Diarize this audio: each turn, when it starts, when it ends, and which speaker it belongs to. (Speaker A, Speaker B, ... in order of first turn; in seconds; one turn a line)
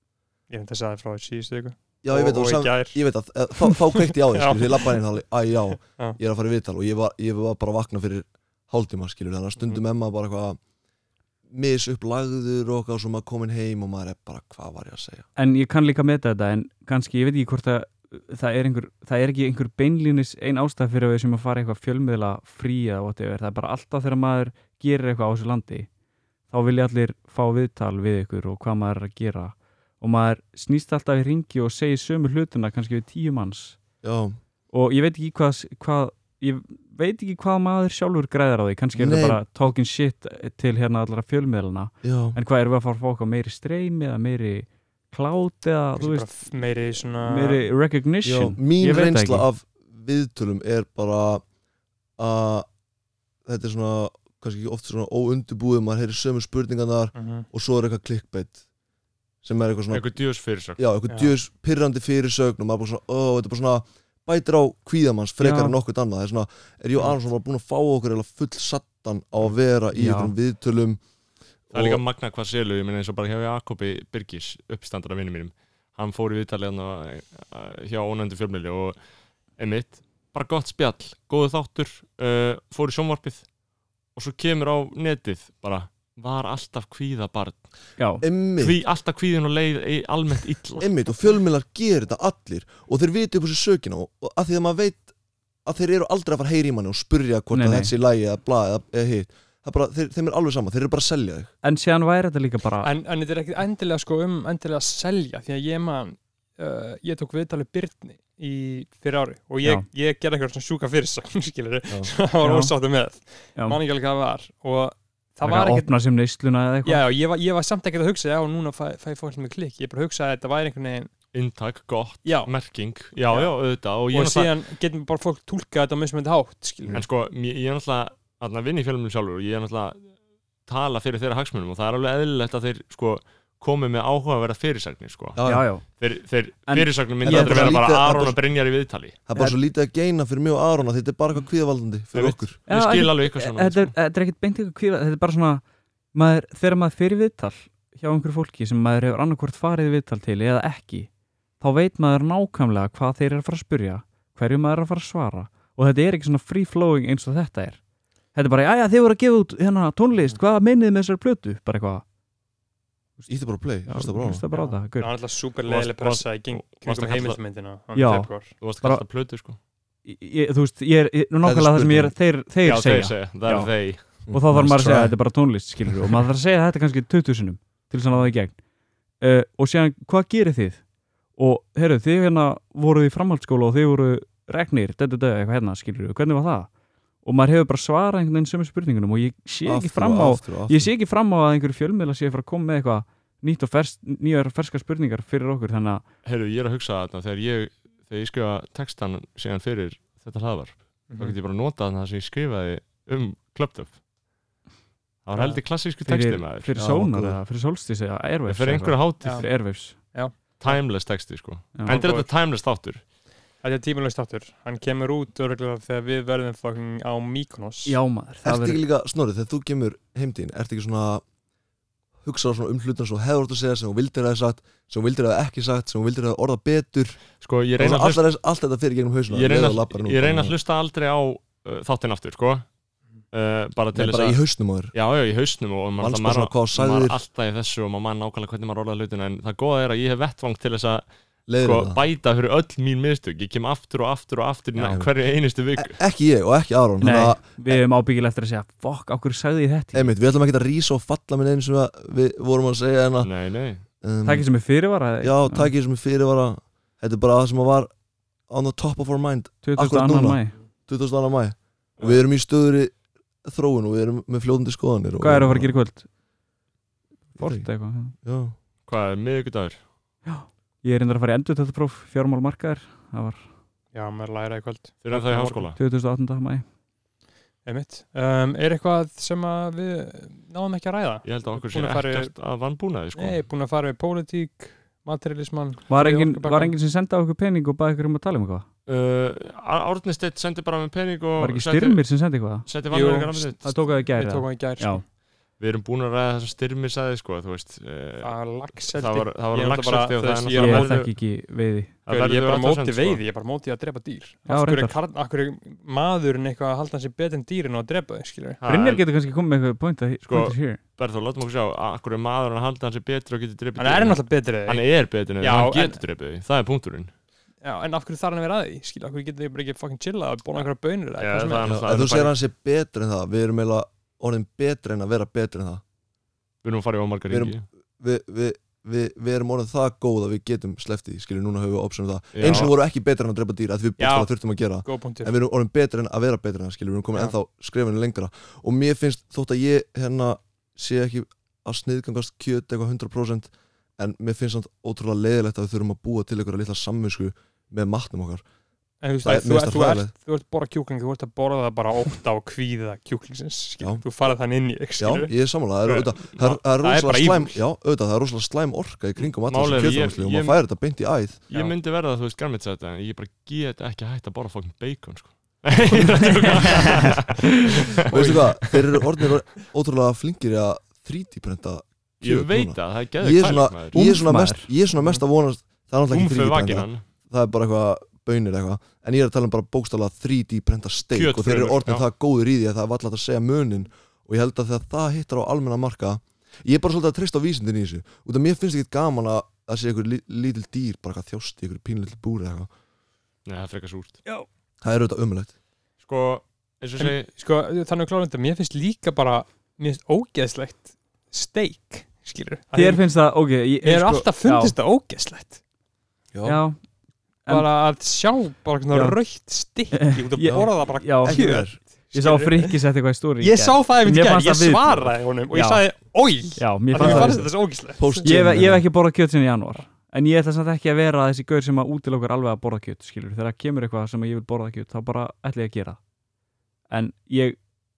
Speaker A: 0.5-3.0
Speaker B: 2.0-10.6
Speaker A: 3.6-4.9
Speaker B: 11.5-15.3
Speaker C: 15.4-25.9
Speaker C: 26.5-33.8
Speaker B: 34.0-34.4
Speaker C: 34.7-46.3
Speaker B: 38.9-39.4
Speaker B: 42.0-42.4
Speaker A: 46.0-47.7
Speaker C: 47.0-49.5
Speaker B: 48.2-51.4
Speaker B: 52.2-52.7
Speaker B: 53.4-58.6
Speaker A: 57.1-57.5
Speaker B: 59.4-60.0
Speaker D: 59.9-60.8
Speaker B: 60.8-71.0
Speaker A: 61.1-61.3
Speaker C: 65.4-65.8
Speaker C: 69.9-70.3
Speaker B: 71.7-72.0
Speaker D: 71.7-79.0
Speaker D: 79.6-83.4
Speaker D: 84.1-87.6
Speaker C: 88.0-88.2
Speaker B: 88.2-88.8
Speaker D: 88.6-90.9
Speaker B: 90.8-95.1
Speaker B: 95.7-101.5
Speaker C: 97.5-97.9
Speaker C: 101.6-102.9
Speaker A: 102.8-115.9
Speaker C: 112.4-112.7
Speaker C: 115.4-117.0
Speaker A: 116.8-121.1
Speaker D: 121.3-124.5
Speaker A: 122.2-122.5
Speaker A: 123.3-123.5
Speaker A: 124.1-127.0
Speaker D: 126.9-130.1
Speaker D: 130.7-135.4
Speaker B: 135.3-135.6
Speaker C: 135.4-135.8
Speaker D: 135.9-139.2
Speaker C: 136.7-137.8
Speaker B: 137.2-138.4
Speaker B: 139.3-142.6
Speaker D: 142.1-143.9
Speaker C: 142.7-145.6
Speaker C: 146.1-157.8
Speaker C: 158.3-162.0
Speaker B: 163.3-164.4
Speaker C: 163.8-165.1
Speaker A: 164.5-168.6
Speaker D: 165.6-167.4
Speaker C: 167.9-169.0
Speaker D: 168.6-169.6
Speaker C: 170.0-178.6
Speaker B: 171.4-172.1
Speaker D: 172.6-174.0
Speaker B: 174.2-175.1
Speaker C: 179.2-180.8
Speaker C: 181.4-186.7
Speaker C: 187.2-196.0
Speaker B: 189.6-190.9
Speaker D: 196.2-203.9
Speaker A: 201.1-201.4
Speaker D: 205.2-206.7
Speaker A: 205.3-205.6
Speaker C: 206.0-210.0
Speaker B: 206.8-207.4
Speaker D: 208.5-209.4
Speaker A: 209.2-210.8
Speaker D: 210.6-213.0
Speaker A: 211.8-212.2
Speaker A: 213.6-218.0
Speaker C: 217.8-218.8
Speaker B: 218.4-221.2
Speaker B: 222.2-227.2
Speaker D: 227.4-228.2
Speaker B: 227.8-230.5
Speaker D: 229.3-232.7
Speaker D: 233.3-234.4
Speaker B: 233.9-234.9
Speaker D: 234.9-241.0
Speaker B: 236.0-237.2
Speaker B: 241.5-242.0
Speaker D: 241.6-246.0
Speaker B: 244.8-245.1
Speaker B: 245.8-247.8
Speaker C: 247.0-250.1
Speaker B: 249.9-253.3
Speaker D: 253.2-253.8
Speaker B: 254.0-254.5
Speaker C: 254.2-255.7
Speaker B: 255.2-257.9
Speaker B: 258.5-265.8
Speaker C: 259.6-260.5
Speaker C: 265.2-266.1
Speaker C: 267.3-268.1
Speaker B: 267.4-267.7
Speaker B: 268.2-268.5
Speaker D: 268.9-269.8
Speaker C: 270.2-273.4
Speaker A: 273.9-275.7
Speaker D: 275.0-275.8
Speaker C: 275.8-276.6
Speaker A: 277.6-282.3
Speaker D: 281.2-283.4
Speaker A: 283.1-286.7
Speaker C: 285.9-288.6
Speaker D: 288.9-292.0
Speaker C: 291.4-292.7
Speaker D: 292.6-293.7
Speaker A: 292.9-295.0
Speaker C: 293.6-295.0
Speaker D: 295.6-301.1
Speaker A: 298.2-300.9
Speaker C: 300.5-301.9
Speaker D: 302.1-303.2
Speaker A: 302.1-308.6
Speaker C: 304.5-305.0
Speaker D: 308.6-309.0
Speaker C: 308.6-310.8
Speaker D: 310.3-317.1
Speaker A: 313.8-314.8
Speaker A: 315.4-316.0
Speaker A: 317.6-321.8
Speaker D: 321.2-322.3
Speaker B: 321.7-325.8
Speaker D: 326.6-327.6
Speaker B: 327.3-348.4
Speaker D: 332.3-332.7
Speaker A: 334.0-335.3
Speaker A: 349.0-355.3
Speaker B: 349.2-350.1
Speaker B: 355.0-361.4
Speaker D: 355.9-356.6
Speaker A: 356.8-357.6
Speaker D: 359.5-360.6
Speaker D: 361.5-369.1
Speaker C: 366.0-367.1
Speaker B: 368.1-392.7
Speaker D: 372.2-374.0
Speaker C: 373.9-374.7
Speaker D: 376.1-377.0
Speaker D: 381.1-382.0
Speaker D: 393.4-394.2
Speaker B: 394.8-395.5
Speaker D: 396.0-397.3
Speaker A: 397.0-403.0
Speaker C: 402.8-404.7
Speaker A: 403.8-405.6
Speaker B: 406.3-406.6
Speaker C: 406.4-406.8
Speaker A: 407.5-412.8
Speaker C: 408.9-409.2
Speaker C: 409.9-415.8
Speaker B: 410.4-411.8
Speaker A: 413.4-418.7
Speaker C: 416.5-417.5
Speaker B: 416.9-417.4
Speaker B: 418.0-418.8
Speaker C: 418.2-426.0
Speaker C: 426.9-427.6